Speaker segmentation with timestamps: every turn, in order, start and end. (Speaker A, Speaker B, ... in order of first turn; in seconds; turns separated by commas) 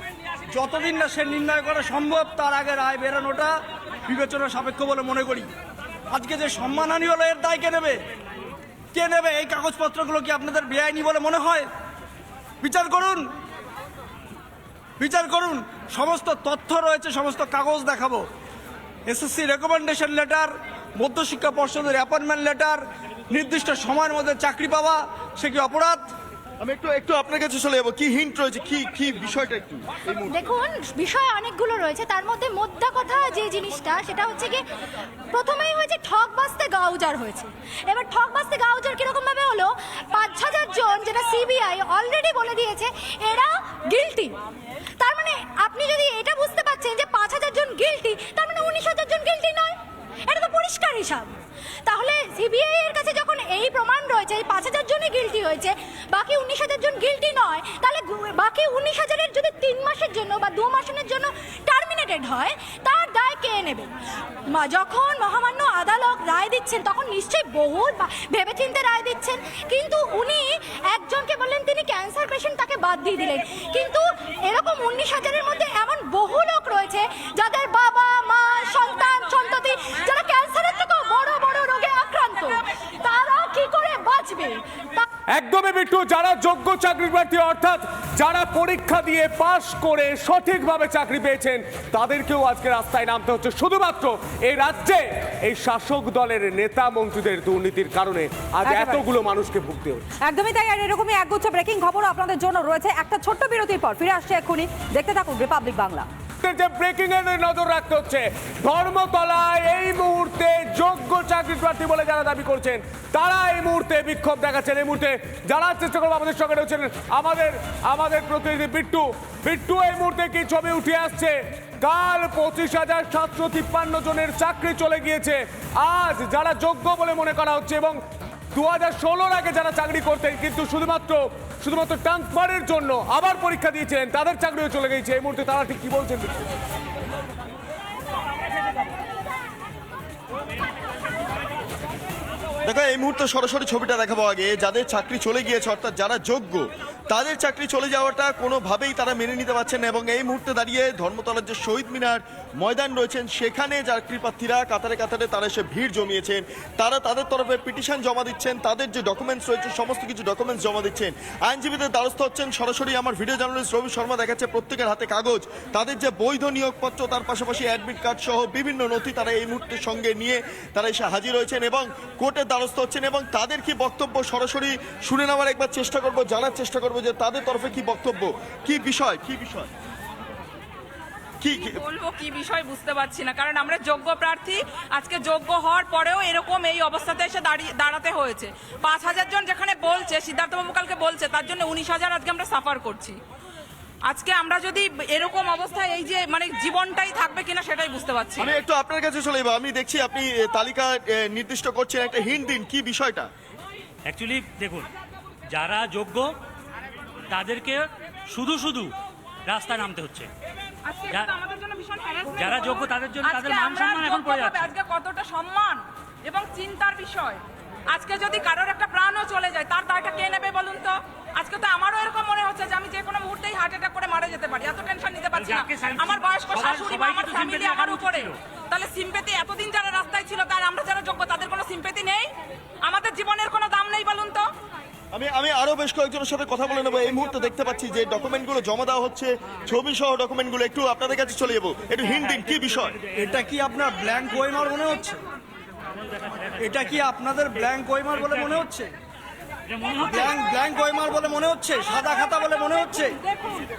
Speaker A: 0.5-5.5, Speaker A: 6.1-8.0, Speaker A: 8.9-11.7, Speaker A: 12.6-13.3, Speaker A: 15.0-18.3, Speaker A: 19.1-26.1, Speaker B: 26.6-30.3, Speaker C: 30.3-34.6, Speaker C: 35.3-44.4, Speaker C: 45.0-63.9, Speaker C: 64.5-85.1, Speaker D: 85.3-100.1, Speaker E: 98.6-99.1, Speaker E: 100.2-106.1, Speaker D: 106.4-128.0, Speaker D: 128.5-136.3, Speaker B: 142.7-179.7, Speaker B: 181.4-181.8, Speaker F: 181.5-193.2, Speaker F: 194.1-198.5, Speaker B: 198.4-203.3, Speaker G: 204.1-204.9, Speaker G: 205.5-206.3, Speaker G: 207.3-208.9, Speaker G: 209.5-210.3, Speaker F: 210.9-232.3, Speaker G: 212.4-214.7, Speaker G: 225.6-226.1, Speaker G: 226.6-228.2, Speaker F: 232.9-234.5, Speaker B: 235.1-243.0, Speaker A: 243.2-245.2, Speaker A: 246.6-248.9, Speaker A: 249.9-253.2